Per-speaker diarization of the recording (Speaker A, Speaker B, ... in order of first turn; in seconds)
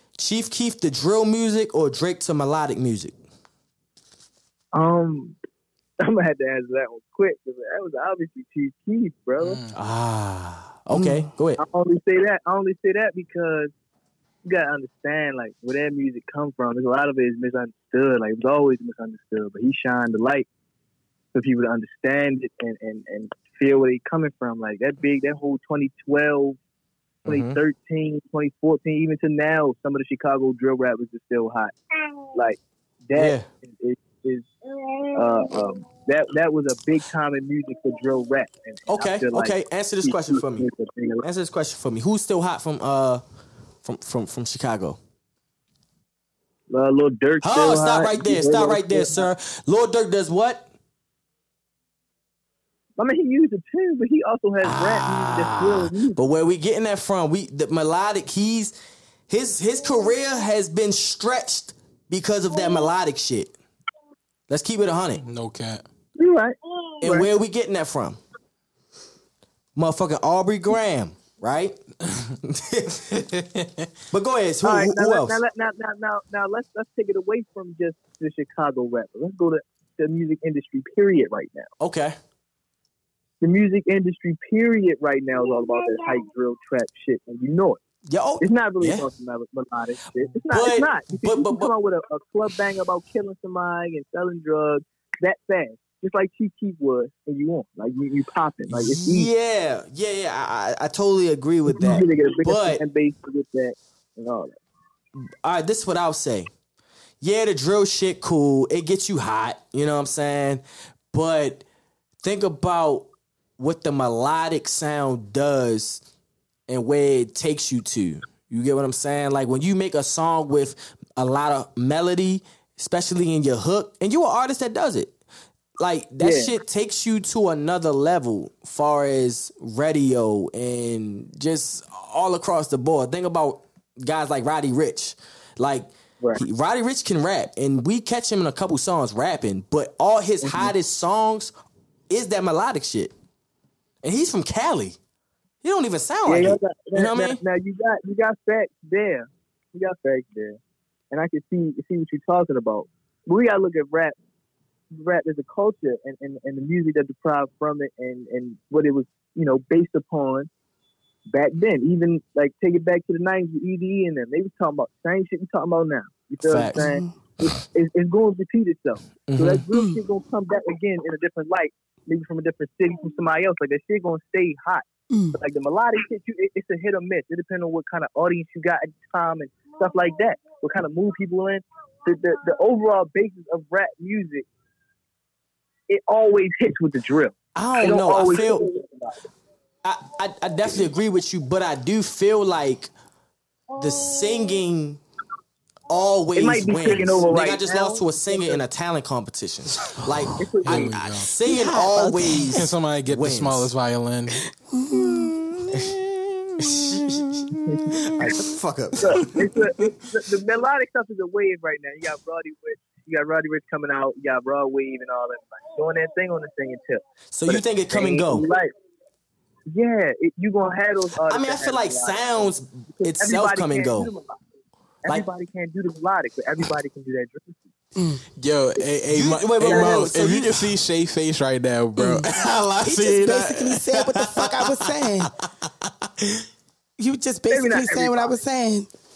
Speaker A: 0.2-3.1, 9.7-11.6, 27.2-27.6, 33.1-33.5, 38.9-40.7, 41.2-43.2, 43.8-45.0, 47.4-50.7, 54.6-58.7, 59.3-63.5, 64.5-65.2, 67.0-68.2, 69.8-71.8, 72.4-73.1, 74.1-75.4, 81.8-82.2, 88.1-89.1, 90.5-91.7, 98.7-102.8, 105.2-106.5, 107.2-111.6, 112.2-116.0, 116.7-125.2, 125.8-141.5, 142.1-143.1, 144.0-145.0, 145.6-147.4, 166.4-166.8, 169.3-169.6, 187.5-188.6, 189.8-192.9, 193.8-195.0, 195.9-203.7, 205.7-206.0, 206.6-207.2, 208.2-209.4, 217.3-218.4, 221.3-224.1, 229.1-230.7
Speaker B: 4.7-5.3, 6.0-9.6, 11.6-13.7, 14.4-20.4, 21.3-26.6, 27.2-31.7, 32.3-34.5, 35.1-41.2, 46.7-49.3, 53.0-56.2, 66.2-67.3, 74.6-81.7, 83.4-87.8, 88.4-99.3, 101.7-104.5, 126.2-126.5, 140.4-140.7, 146.3-150.6, 151.1-154.1, 154.9-160.5, 161.3-184.4, 185.9-189.2, 196.3-198.6, 200.4-200.9, 207.7-208.3, 209.0-218.7, 219.7-224.4, 225.0-227.7, 229.6-230.0, 237.5-238.4
Speaker C: 9.4-9.7, 65.2-65.8, 72.1-72.3, 73.1-73.9, 200.6-201.3, 202.5-204.4, 228.4-236.4
Speaker D: 166.7-167.1, 201.4-202.6, 204.7-205.8, 227.9-228.2, 232.0-232.3, 232.8-235.3, 237.0-238.9